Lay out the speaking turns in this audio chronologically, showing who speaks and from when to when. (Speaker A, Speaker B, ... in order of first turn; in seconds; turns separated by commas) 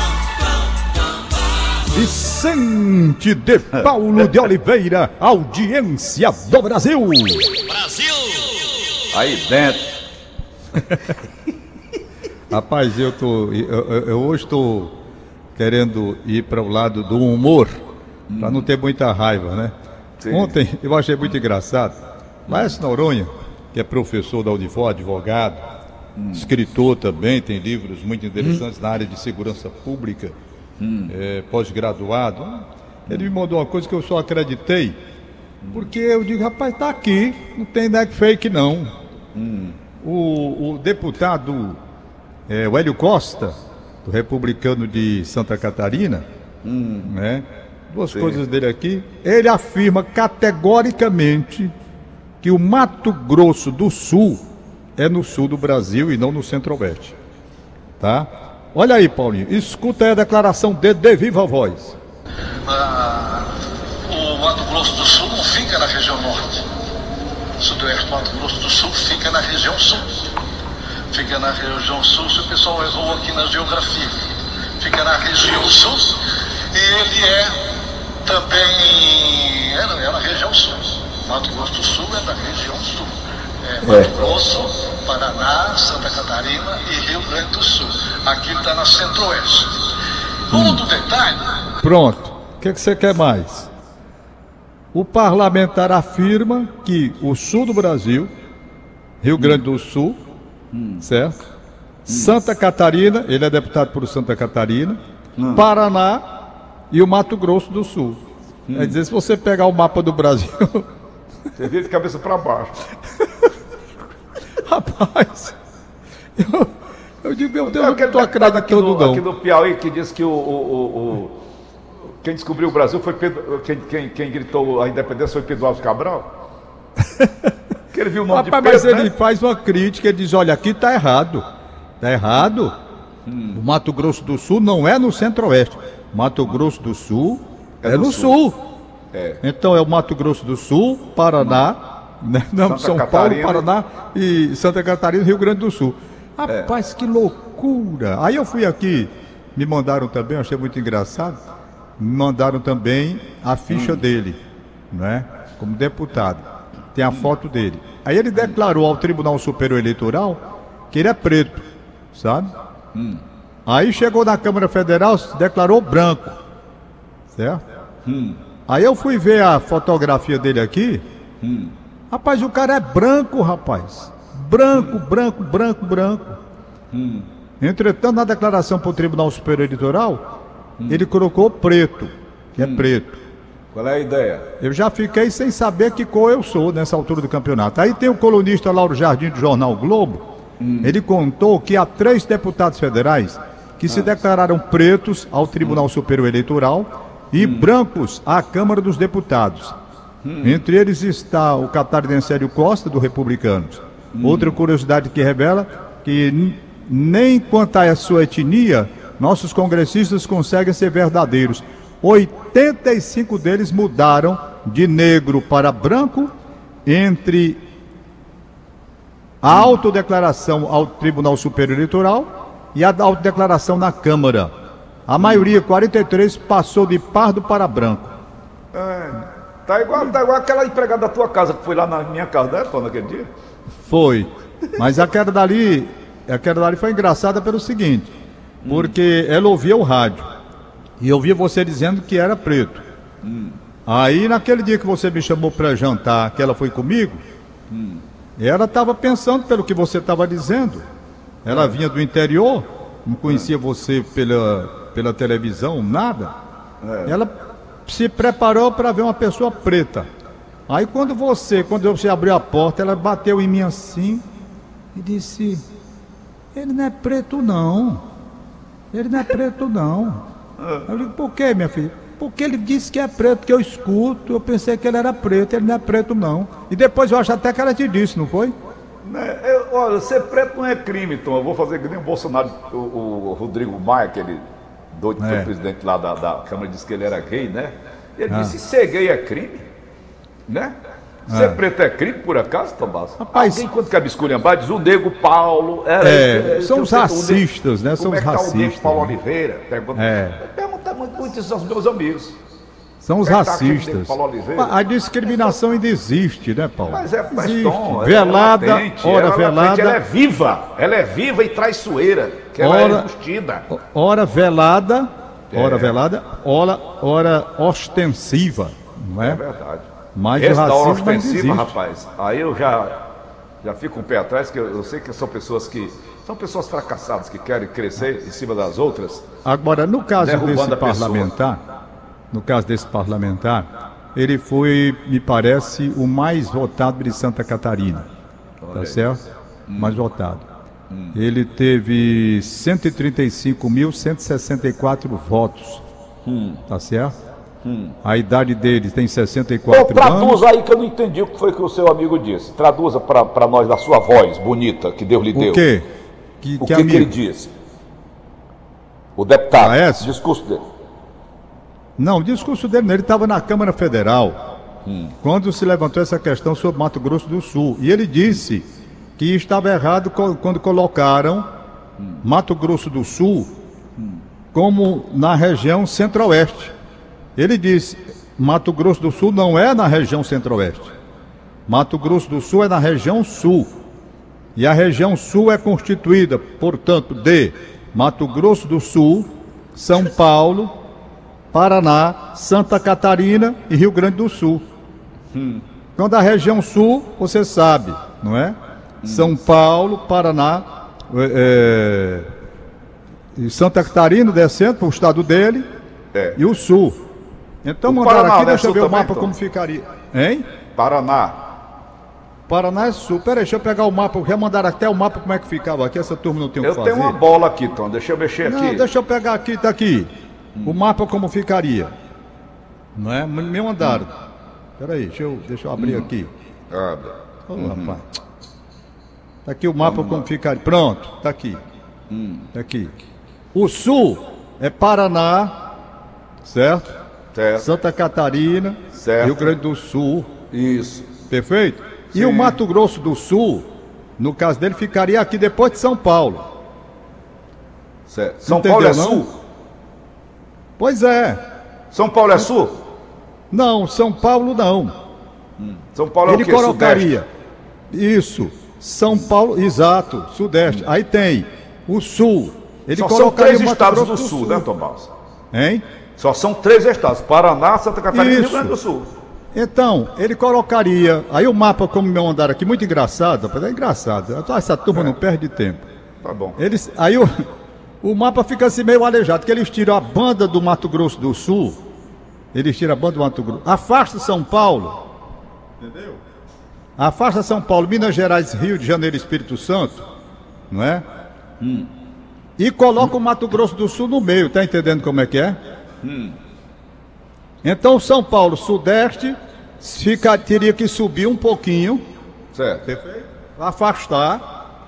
Speaker A: 1.9-7.5, Speaker B: 9.1-9.9, Speaker A: 12.5-14.9, Speaker A: 15.6-17.8, Speaker B: 18.3-18.7, Speaker A: 18.4-19.7, Speaker B: 20.2-20.6, Speaker A: 20.3-22.0, Speaker B: 22.5-22.8, Speaker A: 22.5-25.6, Speaker B: 26.2-26.5, Speaker A: 26.3-30.4, Speaker B: 30.8-31.1, Speaker A: 31.1-35.0, Speaker B: 33.1-33.3, Speaker B: 35.6-35.9, Speaker A: 35.7-38.9, Speaker B: 39.3-39.8, Speaker A: 40.0-41.8, Speaker A: 42.5-46.2, Speaker B: 46.6-47.1, Speaker A: 47.0-51.7, Speaker B: 48.1-48.4, Speaker A: 52.4-54.4, Speaker A: 55.0-57.1, Speaker A: 58.0-62.0, Speaker C: 62.7-63.5, Speaker C: 64.1-66.7, Speaker C: 67.6-70.2, Speaker C: 71.1-77.6, Speaker C: 78.2-83.1, Speaker C: 83.7-89.8, Speaker B: 83.8-84.2, Speaker A: 83.9-84.1, Speaker B: 90.5-90.8, Speaker A: 90.5-90.8, Speaker C: 90.7-91.5, Speaker A: 91.8-93.7, Speaker A: 94.9-98.3, Speaker A: 99.2-100.2, Speaker B: 99.4-99.6, Speaker B: 100.7-101.1, Speaker A: 101.0-101.4, Speaker A: 102.1-105.0, Speaker B: 102.1-102.4, Speaker B: 105.4-105.7, Speaker A: 105.5-106.2, Speaker A: 106.9-108.2, Speaker B: 108.7-109.0, Speaker A: 108.7-110.8, Speaker B: 111.6-112.8, Speaker A: 114.7-115.5, Speaker A: 116.4-116.7, Speaker A: 117.2-119.2, Speaker B: 117.6-121.3, Speaker B: 122.2-126.3, Speaker B: 127.9-129.1, Speaker A: 128.3-131.4, Speaker A: 132.0-132.8, Speaker B: 133.3-133.6, Speaker A: 133.5-138.6, Speaker B: 137.8-138.4, Speaker B: 139.1-139.4, Speaker A: 139.4-151.4, Speaker B: 142.6-143.7, Speaker B: 146.5-146.7, Speaker A: 152.0-154.4, Speaker B: 153.7-154.0, Speaker A: 154.9-156.4, Speaker A: 156.9-162.5, Speaker B: 162.9-163.2, Speaker A: 163.7-166.4, Speaker A: 167.3-167.6, Speaker B: 168.1-168.4, Speaker A: 168.7-171.0, Speaker B: 171.4-171.7, Speaker A: 172.1-176.4, Speaker B: 176.9-177.3, Speaker A: 177.6-180.2, Speaker B: 180.8-181.1, Speaker A: 180.9-183.2, Speaker B: 182.6-182.9, Speaker B: 183.7-184.5, Speaker A: 184.6-190.2, Speaker B: 190.6-190.9, Speaker A: 190.8-199.8, Speaker B: 197.4-197.7, Speaker B: 200.2-200.6, Speaker A: 200.4-216.3, Speaker B: 204.2-204.6, Speaker A: 216.9-217.6, Speaker A: 219.4-224.5, Speaker B: 219.5-219.8, Speaker A: 225.1-228.1, Speaker B: 225.2-225.5, Speaker B: 228.7-233.3, Speaker A: 233.9-238.1, Speaker B: 238.6-239.0, Speaker A: 238.7-240.3, Speaker A: 241.0-242.8, Speaker B: 243.2-243.6, Speaker A: 243.9-247.2, Speaker B: 247.7-248.0, Speaker A: 248.4-250.8, Speaker A: 251.4-256.3, Speaker B: 251.5-251.8, Speaker B: 256.8-257.2, Speaker A: 257.1-257.3, Speaker A: 257.9-260.1, Speaker A: 260.7-264.2, Speaker A: 264.9-265.6, Speaker A: 266.5-268.0, Speaker A: 268.9-270.2, Speaker B: 270.6-270.9, Speaker A: 270.9-278.5, Speaker B: 279.0-289.6, Speaker A: 285.2-285.5, Speaker A: 288.3-288.6, Speaker B: 290.5-290.8, Speaker B: 291.3-302.4, Speaker A: 291.3-291.6, Speaker A: 293.2-293.7, Speaker A: 296.0-299.2, Speaker A: 299.9-300.4, Speaker A: 303.0-310.0, Speaker B: 303.2-304.7, Speaker B: 306.9-313.7, Speaker A: 312.6-313.1, Speaker A: 313.7-319.4, Speaker B: 315.5-316.0, Speaker B: 319.2-323.0, Speaker A: 320.1-321.7, Speaker B: 323.6-329.2, Speaker A: 329.4-331.6, Speaker B: 330.2-331.3, Speaker A: 332.3-338.1, Speaker B: 338.6-339.0, Speaker A: 338.7-339.2, Speaker B: 339.7-340.0, Speaker A: 339.8-340.4, Speaker B: 340.9-341.2, Speaker A: 341.1-345.8, Speaker B: 346.2-346.6, Speaker A: 346.7-347.1, Speaker B: 347.6-348.0, Speaker A: 348.0-350.4, Speaker B: 349.7-355.6, Speaker A: 355.3-355.9, Speaker A: 356.4-357.1, Speaker B: 356.6-357.5, Speaker B: 359.2-360.6, Speaker A: 359.5-360.1, Speaker A: 362.0-364.4, Speaker B: 364.9-365.1, Speaker A: 365.2-368.7, Speaker A: 369.2-371.5, Speaker B: 372.0-372.2, Speaker A: 372.2-373.5, Speaker B: 374.0-374.2, Speaker A: 374.5-376.7, Speaker A: 377.4-380.9, Speaker A: 381.7-383.7, Speaker A: 384.6-390.7, Speaker A: 391.5-394.6, Speaker B: 395.3-395.6, Speaker A: 396.0-402.3, Speaker B: 399.0-399.4, Speaker A: 403.4-405.6, Speaker B: 406.1-406.4, Speaker A: 406.4-407.0, Speaker A: 407.6-410.4, Speaker B: 407.9-409.3, Speaker B: 410.8-411.4, Speaker A: 412.5-417.2, Speaker B: 416.6-418.9, Speaker A: 418.4-420.1, Speaker A: 420.6-421.9, Speaker A: 423.0-424.1, Speaker A: 424.8-426.3, Speaker B: 425.8-426.1, Speaker B: 426.7-428.0, Speaker A: 427.5-428.0, Speaker A: 429.4-431.6, Speaker B: 429.8-430.3, Speaker B: 432.1-432.5, Speaker A: 432.5-432.9, Speaker A: 433.5-435.5, Speaker A: 436.4-436.9, Speaker B: 437.3-437.7, Speaker A: 437.6-440.3, Speaker B: 438.9-439.5, Speaker B: 440.5-441.1, Speaker A: 441.3-443.7, Speaker B: 442.1-442.6, Speaker A: 444.2-446.4, Speaker B: 448.1-449.4, Speaker A: 448.4-449.3, Speaker A: 450.8-451.4, Speaker B: 451.9-452.8, Speaker A: 453.5-454.9, Speaker B: 455.6-457.1, Speaker A: 456.3-457.3, Speaker A: 457.9-464.7, Speaker B: 462.9-465.1, Speaker A: 465.5-465.8, Speaker B: 466.2-469.1, Speaker A: 468.1-468.8, Speaker A: 469.5-475.8, Speaker B: 476.2-476.6, Speaker A: 476.6-477.4, Speaker A: 478.0-481.8, Speaker A: 482.5-485.0, Speaker A: 485.8-486.2, Speaker A: 487.0-490.0, Speaker A: 490.7-491.1, Speaker B: 491.6-491.9, Speaker A: 492.6-495.6, Speaker B: 496.0-496.4, Speaker A: 497.6-502.0, Speaker B: 502.5-502.9, Speaker A: 502.9-504.4